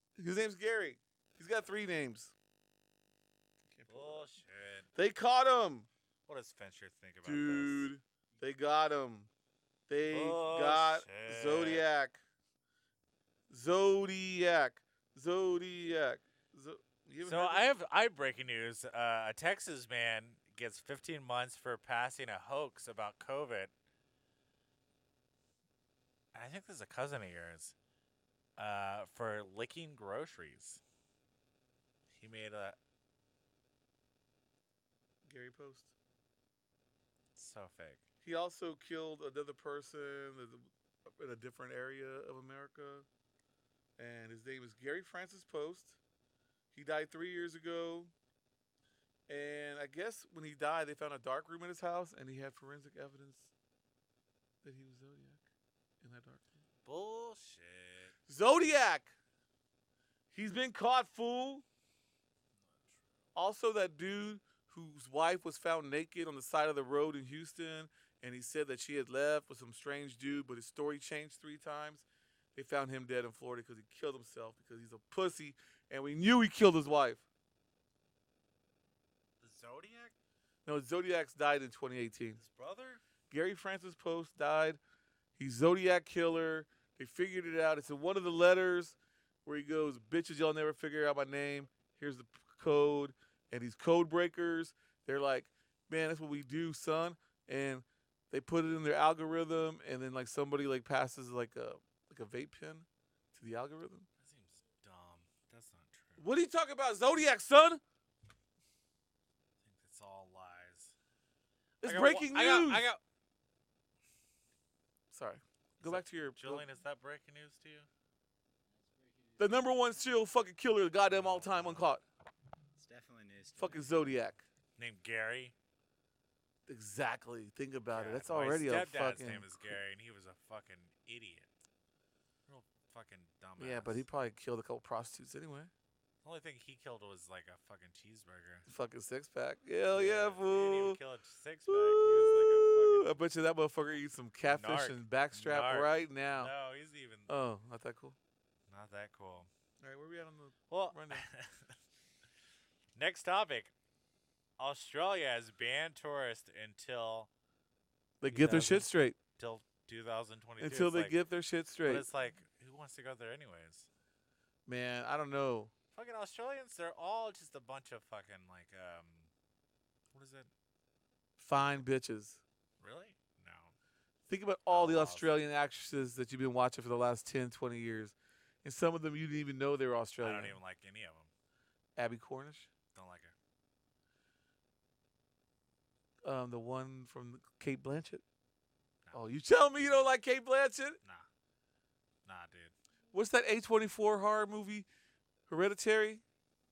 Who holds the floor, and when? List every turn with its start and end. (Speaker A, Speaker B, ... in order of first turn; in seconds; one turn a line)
Speaker A: 0.2-2.3
Speaker A: 3.7-4.3
Speaker B: 3.9-4.9
Speaker A: 4.9-5.9
Speaker B: 6.3-7.9
Speaker A: 7.2-9.3
Speaker A: 9.9-12.2
Speaker B: 10.1-11.8
Speaker A: 13.5-17.7
Speaker B: 17.2-23.7
Speaker B: 26.3-27.7
Speaker B: 28.6-30.8
Speaker B: 32.1-32.8
Speaker A: 35.2-35.9
Speaker B: 37.4-38.0
Speaker A: 38.2-43.0
Speaker A: 44.0-46.0
Speaker A: 46.7-48.1
Speaker A: 49.3-53.5
Speaker A: 54.6-55.4
Speaker A: 56.0-56.6
Speaker B: 56.8-58.1
Speaker A: 58.3-59.1
Speaker A: 60.3-61.6
Speaker A: 63.3-77.2
Speaker B: 79.4-80.1
Speaker A: 80.7-82.4
Speaker B: 82.4-83.0
Speaker A: 83.3-84.8
Speaker A: 85.4-104.1
Speaker B: 104.2-106.2
Speaker A: 106.2-107.8
Speaker B: 109.6-110.9
Speaker A: 111.8-112.8
Speaker B: 111.8-113.0
Speaker A: 115.1-116.7
Speaker B: 115.8-117.9
Speaker C: 118.7-119.8
Speaker A: 119.4-122.0
Speaker B: 121.1-121.8
Speaker C: 122.7-123.9
Speaker A: 123.5-124.4
Speaker B: 124.8-125.5
Speaker A: 126.7-129.6
Speaker B: 127.9-131.5
Speaker B: 132.5-134.0
Speaker A: 133.6-135.7
Speaker B: 136.2-138.7
Speaker A: 138.7-141.0
Speaker B: 139.9-143.1
Speaker A: 141.7-146.5
Speaker B: 144.5-147.3
Speaker A: 147.3-148.2
Speaker B: 148.7-149.5
Speaker A: 149.8-151.2
Speaker B: 150.7-151.7
Speaker B: 152.9-153.7
Speaker B: 154.6-157.3
Speaker A: 158.2-159.2
Speaker B: 158.3-161.2
Speaker A: 160.6-162.0
Speaker B: 161.8-163.9
Speaker A: 164.7-165.7
Speaker B: 165.9-169.3
Speaker B: 170.1-170.5
Speaker A: 171.4-172.4
Speaker B: 172.8-173.7
Speaker A: 174.3-180.6
Speaker B: 174.7-175.4
Speaker B: 180.2-181.3
Speaker A: 182.0-182.7
Speaker B: 182.9-183.3
Speaker A: 186.2-188.2
Speaker A: 189.1-191.0
Speaker B: 189.8-190.1
Speaker B: 192.2-192.7
Speaker A: 193.1-194.9
Speaker A: 195.5-196.2